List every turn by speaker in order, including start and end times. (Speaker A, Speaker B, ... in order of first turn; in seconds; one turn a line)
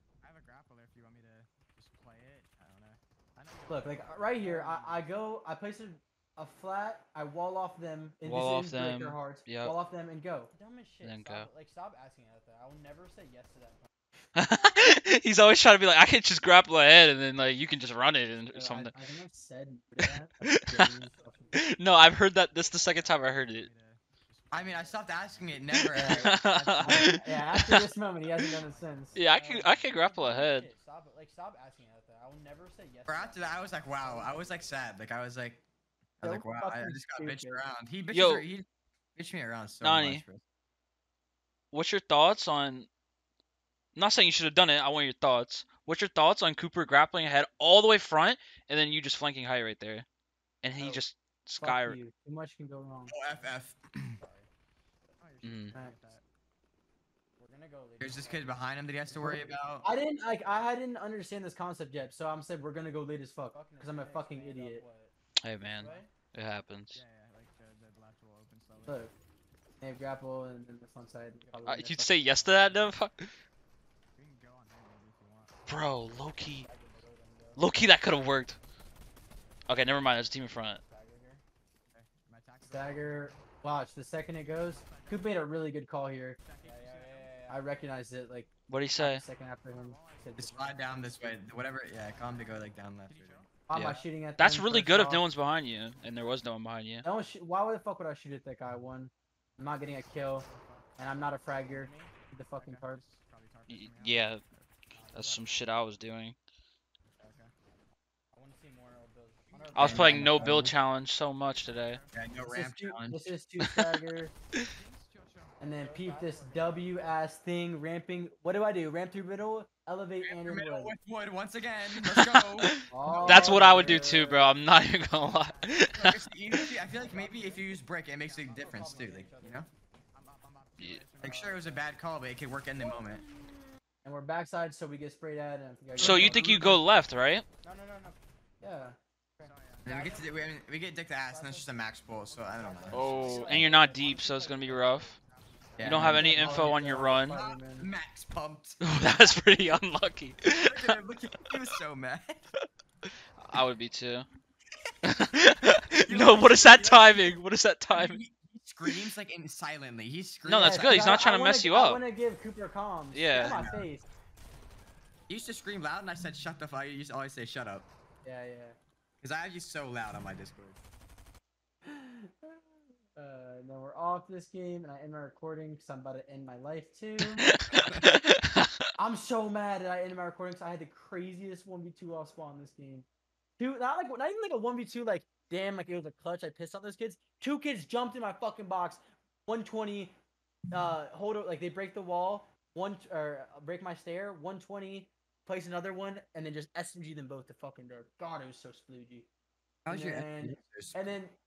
Speaker A: 0.2-5.0
Speaker B: 3.7-10.5
Speaker C: 4.4-4.8
Speaker D: 8.2-9.8
Speaker C: 10.5-13.9
Speaker D: 11.0-11.5
Speaker D: 14.3-18.9
Speaker B: 18.5-21.5
Speaker D: 20.4-20.9
Speaker C: 21.2-21.6
Speaker D: 21.5-23.7
Speaker A: 22.4-25.9
Speaker E: 24.5-26.4
Speaker D: 25.9-27.9
Speaker B: 25.9-29.2
Speaker A: 27.8-29.8
Speaker D: 29.1-30.7
Speaker C: 29.2-33.4
Speaker E: 33.0-35.6
Speaker C: 34.0-34.6
Speaker A: 34.0-34.7
Speaker E: 36.2-40.4
Speaker B: 36.2-37.6
Speaker D: 38.1-38.4
Speaker D: 39.8-40.2
Speaker D: 41.7-42.9
Speaker D: 44.0-50.0
Speaker D: 50.6-52.0
Speaker B: 50.8-51.0
Speaker B: 51.6-53.1
Speaker E: 53.1-54.2
Speaker C: 54.2-54.5
Speaker A: 55.2-56.2
Speaker D: 55.4-55.7
Speaker C: 57.4-58.6
Speaker E: 58.0-59.9
Speaker B: 59.1-64.8
Speaker C: 63.5-65.1
Speaker D: 65.4-67.0
Speaker C: 65.7-66.1
Speaker A: 66.9-69.1
Speaker B: 68.8-69.1
Speaker B: 69.8-72.3
Speaker D: 71.6-73.3
Speaker A: 72.3-73.0
Speaker A: 74.1-75.6
Speaker D: 75.7-76.7
Speaker C: 76.6-77.7
Speaker D: 77.5-78.6
Speaker D: 79.7-80.8
Speaker C: 80.8-81.4
Speaker A: 81.9-83.5
Speaker B: 82.7-86.4
Speaker A: 84.5-85.5
Speaker A: 86.4-87.5
Speaker C: 86.6-87.6
Speaker B: 87.5-90.7
Speaker D: 88.7-89.2
Speaker A: 89.7-94.0
Speaker E: 90.4-93.5
Speaker B: 93.7-95.2
Speaker D: 93.7-97.1
Speaker B: 97.0-103.0
Speaker A: 100.0-101.0
Speaker C: 101.6-102.1
Speaker A: 102.5-104.7
Speaker D: 103.7-104.4
Speaker C: 104.9-105.7
Speaker D: 105.1-106.3
Speaker A: 107.2-107.5
Speaker C: 108.3-110.5
Speaker A: 109.5-109.8
Speaker D: 109.7-112.0
Speaker E: 109.8-110.7
Speaker B: 109.8-110.7
Speaker A: 111.5-112.4
Speaker E: 112.1-113.3
Speaker B: 112.5-114.3
Speaker A: 114.6-115.7
Speaker B: 115.6-120.9
Speaker C: 115.8-117.0
Speaker E: 120.2-124.0
Speaker D: 122.0-126.2
Speaker B: 122.9-124.6
Speaker A: 124.3-129.6
Speaker E: 126.0-129.7
Speaker C: 127.0-127.6
Speaker C: 128.4-129.7
Speaker A: 130.1-131.9
Speaker E: 131.2-133.2
Speaker B: 134.0-136.8
Speaker D: 136.0-137.4
Speaker E: 136.0-136.3
Speaker C: 137.6-138.2
Speaker B: 138.6-139.0
Speaker C: 139.4-140.3
Speaker A: 139.4-140.2
Speaker E: 139.8-143.5
Speaker C: 141.2-145.1
Speaker D: 142.9-145.1
Speaker A: 144.6-146.0
Speaker E: 145.8-148.8
Speaker D: 145.8-147.4
Speaker B: 145.8-147.9
Speaker D: 148.8-151.0
Speaker E: 150.4-152.4
Speaker D: 153.4-154.3
Speaker D: 155.0-158.2
Speaker E: 156.0-157.4
Speaker E: 157.9-161.2
Speaker D: 160.4-162.0
Speaker B: 160.6-164.1
Speaker D: 163.1-163.6
Speaker E: 163.4-163.8
Speaker E: 165.3-167.9
Speaker B: 168.2-168.8
Speaker E: 169.2-170.8
Speaker B: 171.8-177.5
Speaker D: 177.2-178.9
Speaker E: 177.8-178.1
Speaker B: 178.9-183.1
Speaker B: 183.6-190.2
Speaker B: 190.7-199.3
Speaker E: 199.8-201.2
Speaker B: 199.9-201.3